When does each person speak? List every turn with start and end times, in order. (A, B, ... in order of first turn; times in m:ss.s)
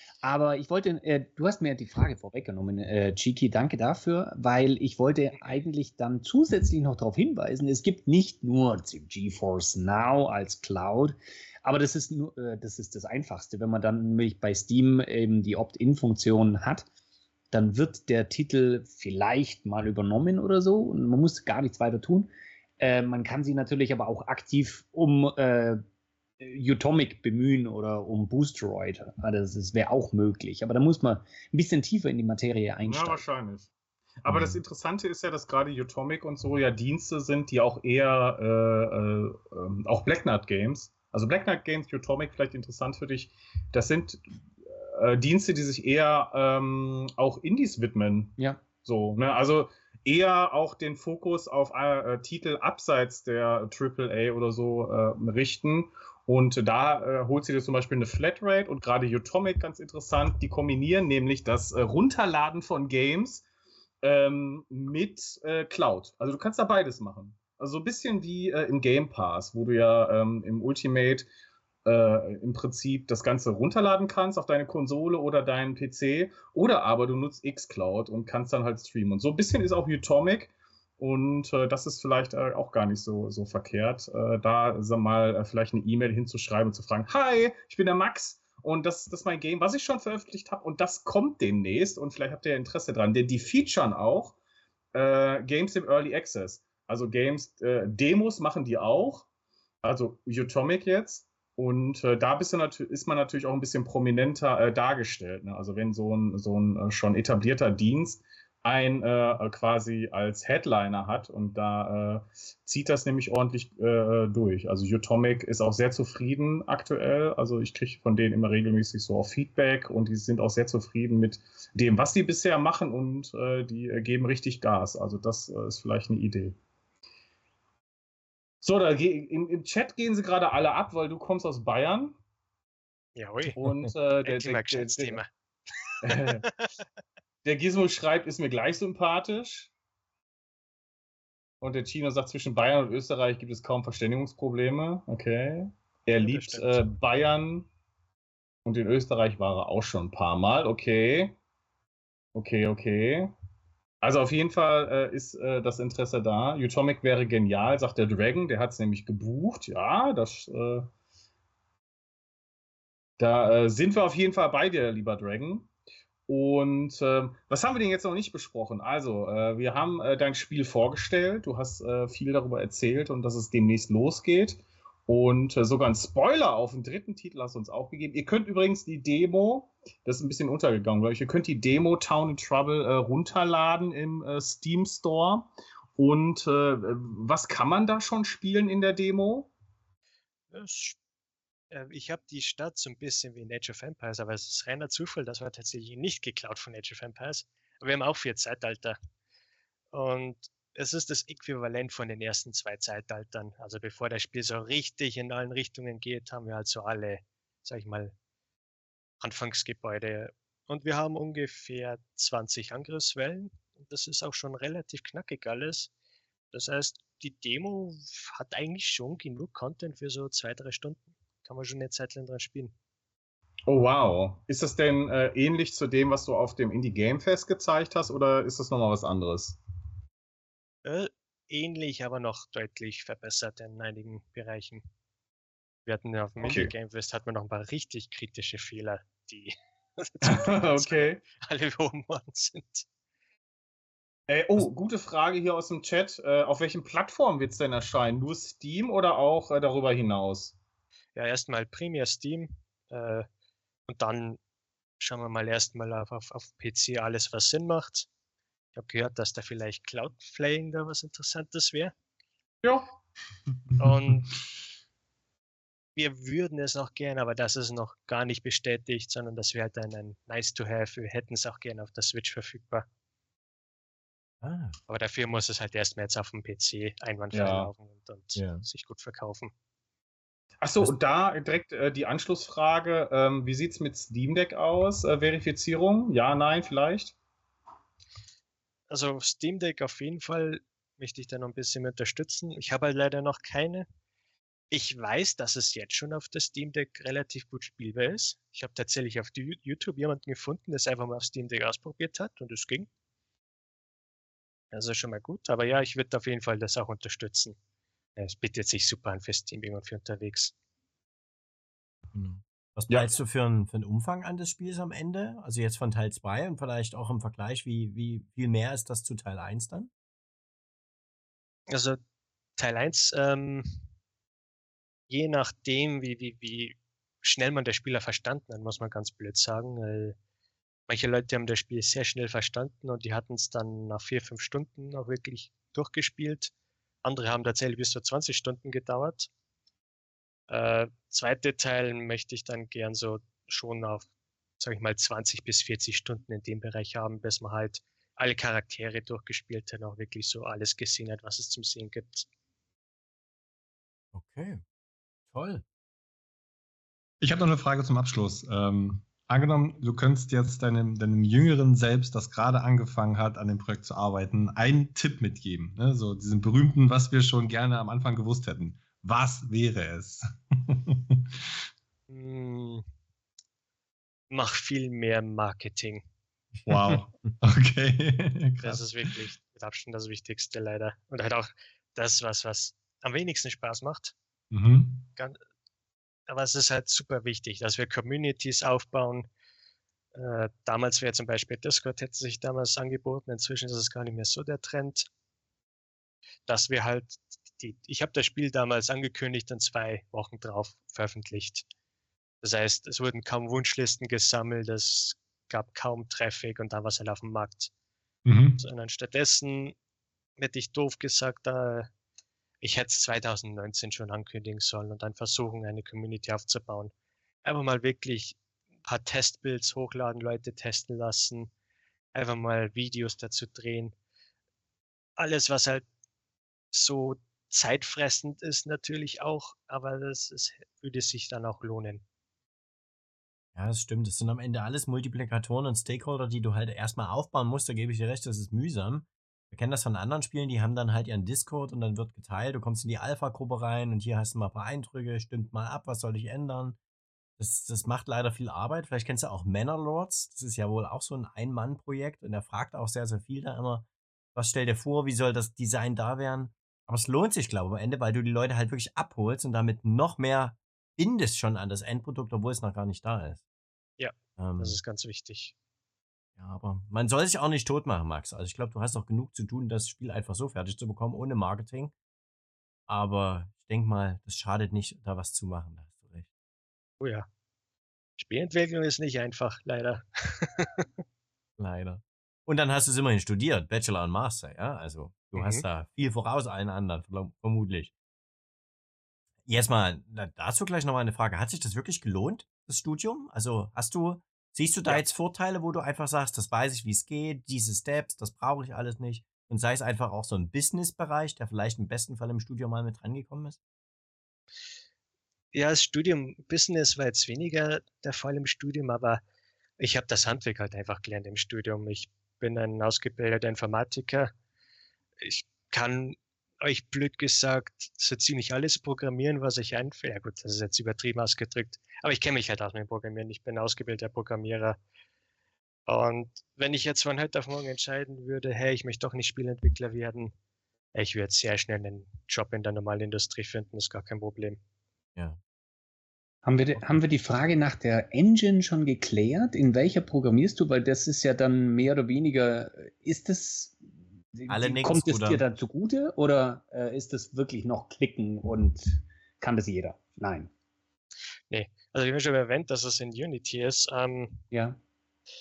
0:00.2-0:16.9 A
0:17.5-0:22.3 A
0:22.8-0:25.8 A
0:26.4-0:33.2 A
0:32.8-0:33.7 B
0:34.2-0:44.2 B
0:44.8-1:03.4 B
1:04.0-1:11.3 B
1:11.8-1:34.4 B
1:34.9-1:39.3 B
1:39.8-2:06.6 B
2:08.6-2:12.2 B
2:13.2-2:13.6 C
2:13.6-2:15.2 B
2:14.2-2:15.3 C
2:16.0-2:16.5 B
2:16.1-2:16.7 C
2:17.4-2:19.7 B
2:21.6-2:27.7 B
2:26.2-2:26.8 C
2:28.6-2:31.4 B
2:32.4-2:33.3 B
2:34.0-2:40.9 B
2:43.2-2:45.7 B
2:46.3-3:09.5 B
3:10.5-3:11.0 C
3:11.7-3:19.0 C
3:19.9-3:28.2 C
3:29.2-3:35.9 C
3:36.5-3:42.7 C
3:43.7-3:49.6 B
3:50.8-3:54.8 C
3:55.9-4:02.9 C
3:56.4-3:56.7 B
4:00.2-4:01.2 B
4:04.3-4:10.6 B
4:11.2-4:13.3 C
4:13.9-4:14.4 C
4:15.0-4:18.1 C
4:18.8-4:21.9 C
4:22.6-4:22.9 B
4:23.8-4:24.3 C
4:26.0-4:32.8 C
4:34.4-4:34.8 D
4:34.9-4:39.5 C
4:37.3-4:37.7 B
4:38.4-4:38.6 D
4:40.6-4:47.2 B
4:48.9-4:53.9 C
4:54.7-5:02.9 C
5:04.7-5:07.6 C
5:08.2-5:10.5 C
5:12.1-5:19.9 D
5:12.9-5:13.1 B
5:21.7-5:22.0 C
5:22.6-5:23.8 C
5:25.1-5:30.2 C
5:30.9-5:36.5 C
5:37.0-5:39.3 C
5:40.5-5:44.0 C
5:44.6-5:52.3 C
5:54.1-5:54.6 D
5:55.3-5:55.6 D
5:57.2-6:11.4 E
6:12.1-6:12.8 C
6:14.3-6:16.0 C
6:16.7-6:18.8 E
6:18.6-6:24.2 C
6:24.5-6:25.1 E
6:26.3-6:29.3 C
6:30.1-6:35.1 C
6:36.5-6:41.7 C
6:42.4-6:47.7 C
6:48.3-6:48.6 E
6:48.6-6:49.8 C
6:50.4-6:51.9 C
6:52.6-6:56.9 C
6:57.4-7:01.5 C
7:02.1-7:03.9 C
7:05.2-7:05.8 C
7:06.7-7:12.0 C
7:13.6-7:26.8 D
7:27.4-7:43.4 D
7:44.0-7:45.5 C
7:44.4-7:44.8 D
7:46.4-7:51.9 D
7:52.9-7:56.3 D
7:57.0-7:57.3 C
7:58.2-8:00.9 C
8:01.6-8:07.9 D
8:05.4-8:05.6 C
8:09.5-8:23.6 D
8:25.5-8:29.2 C
8:29.8-8:34.3 C
8:35.2-8:44.8 C
8:45.9-8:50.3 C
8:50.9-8:54.6 C
8:56.4-9:03.8 A
9:04.4-9:10.5 A
9:04.5-9:05.4 D
9:11.5-9:14.4 C
9:14.5-9:14.8 A